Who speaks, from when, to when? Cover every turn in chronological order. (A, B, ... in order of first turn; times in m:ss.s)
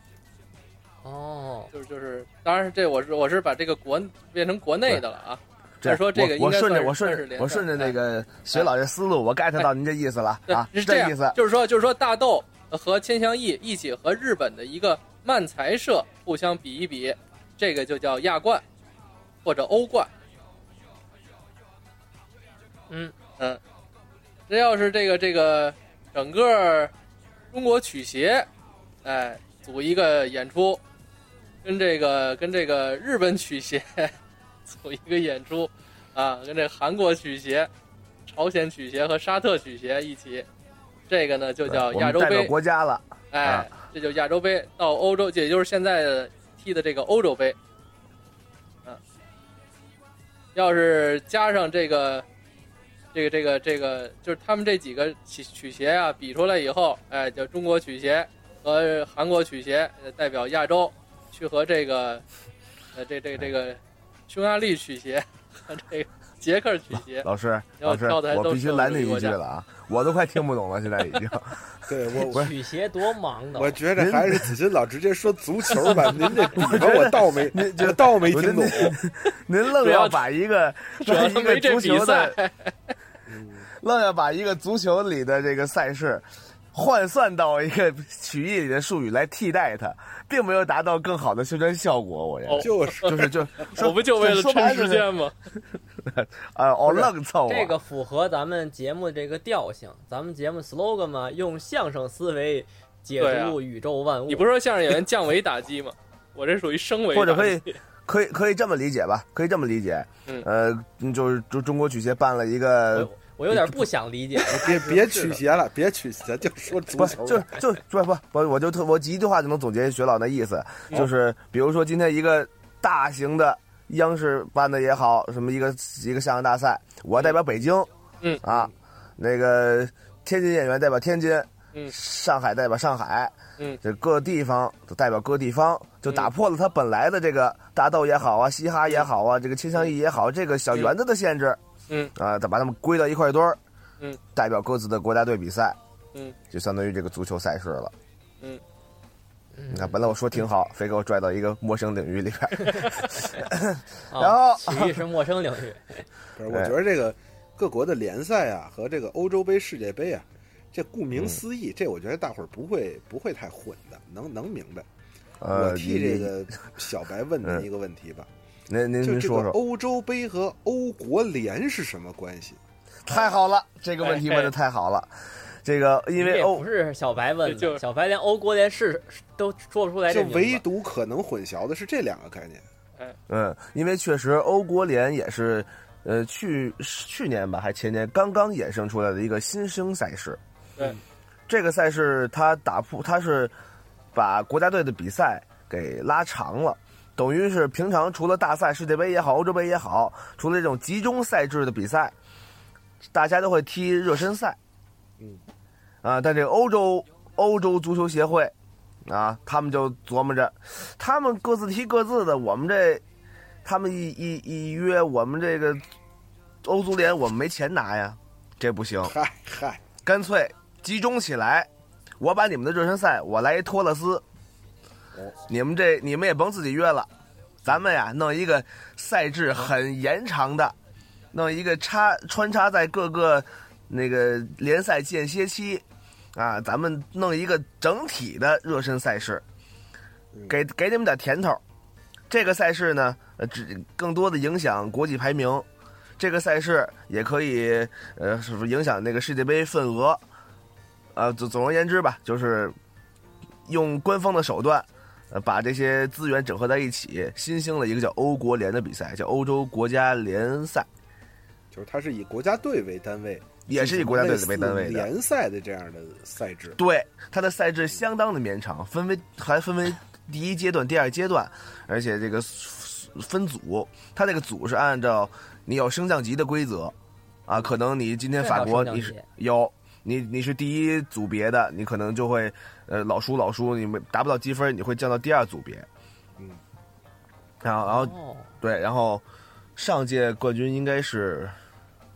0:01.0-0:01.7 A
0:01.7-0:08.0 B
0:05.8-0:11.4 C
0:10.5-0:18.6 B
0:19.4-0:20.1 B
0:24.5-0:26.9 B
0:27.5-0:28.5 B
0:29.0-0:30.8 B
0:31.6-0:34.1 B
0:34.7-0:37.7 B
0:38.3-0:40.5 B
0:41.1-0:42.5 B
0:41.7-0:43.7 C
0:43.3-0:47.6 B
0:50.6-0:52.2 B
0:53.1-1:02.2 B
1:03.0-1:07.3 B
1:07.2-1:12.5 C
1:07.8-1:09.4 B
1:11.9-1:12.5 D
1:12.3-1:13.8 A
1:13.6-1:19.0 D
1:14.0-1:14.6 C
1:16.5-1:22.4 C
1:19.7-1:20.2 B
1:21.0-1:22.9 B
1:23.3-1:23.7 D
1:23.8-1:35.1 C
1:32.4-1:35.4 B
1:32.6-1:33.4 D
1:36.0-1:37.8 C
1:37.0-1:44.5 A
1:43.2-1:43.6 B
1:44.3-1:47.7 B
1:47.1-1:53.8 C
1:52.9-1:55.3 A
1:54.5-1:57.5 D
1:54.6-1:55.3 B
1:57.0-2:07.9 C
2:08.4-2:21.6 C
2:22.2-2:23.6 C
2:24.4-2:25.8 C
2:26.5-2:27.9 C
2:29.6-2:30.1 A
2:29.7-2:35.0 C
2:34.1-2:36.0 A
2:36.4-2:44.9 D
2:36.5-2:36.8 C
2:41.1-2:41.4 C
2:45.4-2:46.4 C
2:45.5-2:48.3 D
2:48.7-2:49.6 C
2:49.0-2:52.6 D
2:53.0-2:56.7 C
2:54.0-2:54.5 B
2:56.2-3:00.6 A
2:57.5-2:57.8 B
3:00.1-3:02.6 D
3:03.3-3:10.4 C
3:11.5-3:13.5 C
3:14.1-3:22.2 C
3:23.0-3:24.6 C
3:26.0-3:28.5 C
3:29.0-3:33.0 C
3:33.6-3:35.9 C
3:36.6-3:39.2 C
3:39.0-3:39.8 D
3:40.0-3:41.7 C
3:42.2-3:44.2 C
3:45.5-3:47.1 C
3:47.6-3:50.8 C
3:51.3-3:55.8 C
3:56.4-3:59.4 C
4:00.5-4:01.6 C
4:02.3-4:05.7 C
4:06.2-4:10.2 C
4:11.2-4:12.8 C
4:13.7-4:20.9 C
4:21.7-4:26.8 D
4:23.7-4:25.1 C
4:26.8-4:37.0 C
4:37.5-4:45.9 C
4:38.4-4:39.2 A
4:46.4-4:46.6 D
4:47.6-4:49.2 C
4:47.8-4:48.5 A
4:49.8-4:51.6 C